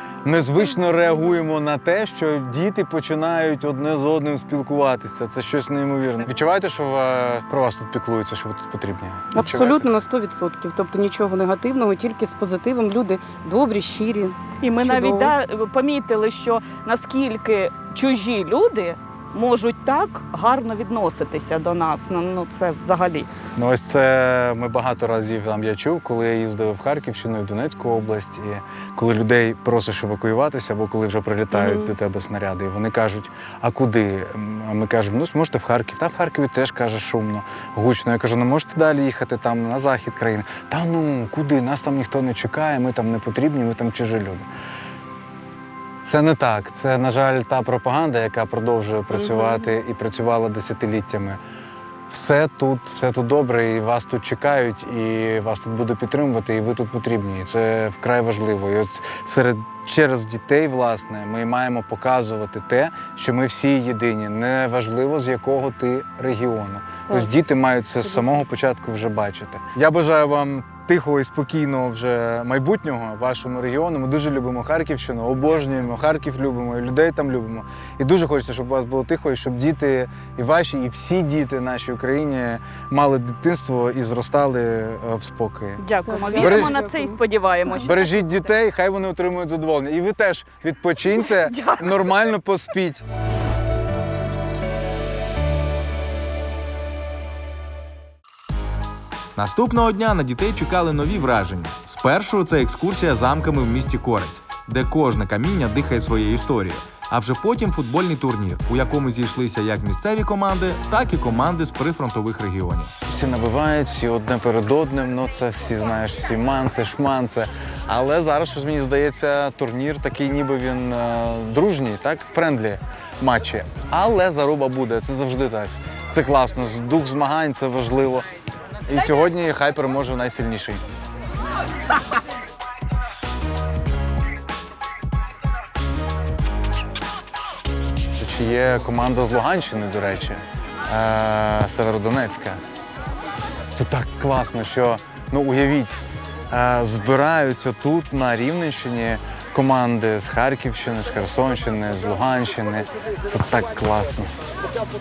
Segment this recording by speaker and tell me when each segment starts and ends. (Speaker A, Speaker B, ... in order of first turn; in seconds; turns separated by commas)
Speaker A: 0.2-10.0, Speaker B: 9.3-15.3, Speaker C: 14.6-23.3, Speaker A: 23.6-44.5, Speaker B: 31.5-31.9, Speaker A: 46.0-51.4, Speaker B: 49.2-49.6, Speaker A: 52.1-86.8, Speaker C: 85.8-88.3, Speaker B: 86.0-87.9, Speaker A: 87.8-93.0, Speaker C: 91.2-92.0, Speaker D: 99.3-112.9, Speaker A: 113.1-128.3, Speaker A: 128.9-130.8, Speaker A: 138.2-142.6, Speaker A: 143.7-154.3